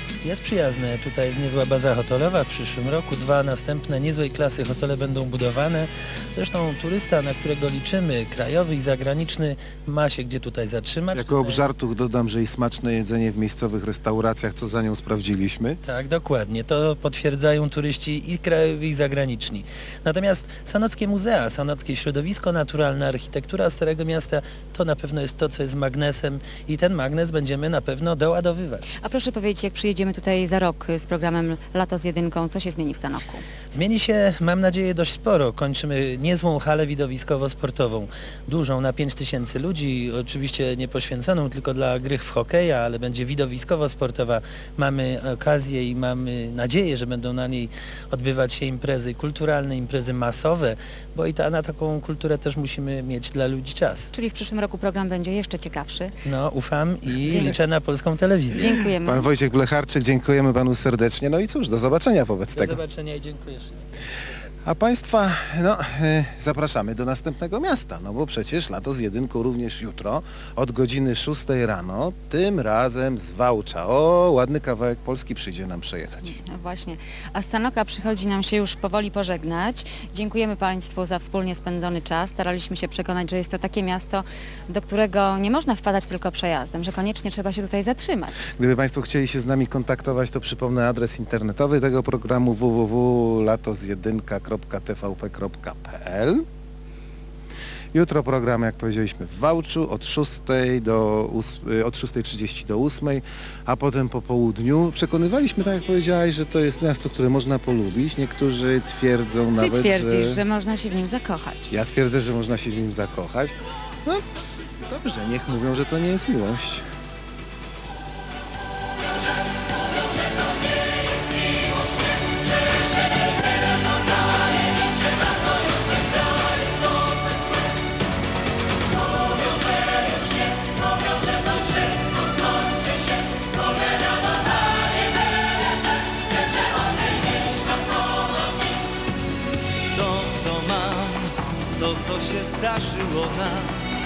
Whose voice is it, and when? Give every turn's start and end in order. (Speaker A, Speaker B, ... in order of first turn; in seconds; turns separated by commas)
Speaker A: 0.2-11.7, Speaker B: 11.1-15.8, Speaker A: 15.8-28.9, Speaker C: 29.0-33.4, Speaker A: 33.7-54.1, Speaker C: 54.1-56.1, Speaker A: 56.2-58.7, Speaker C: 57.3-57.5, Speaker C: 58.5-59.3, Speaker B: 59.0-62.8, Speaker A: 62.5-63.8, Speaker B: 64.6-76.3, Speaker C: 76.2-88.4, Speaker B: 88.6-96.4, Speaker B: 97.9-110.4, Speaker C: 109.6-111.7, Speaker B: 111.7-114.2, Speaker B: 114.8-116.9, Speaker D: 137.2-137.9, Speaker D: 139.9-143.9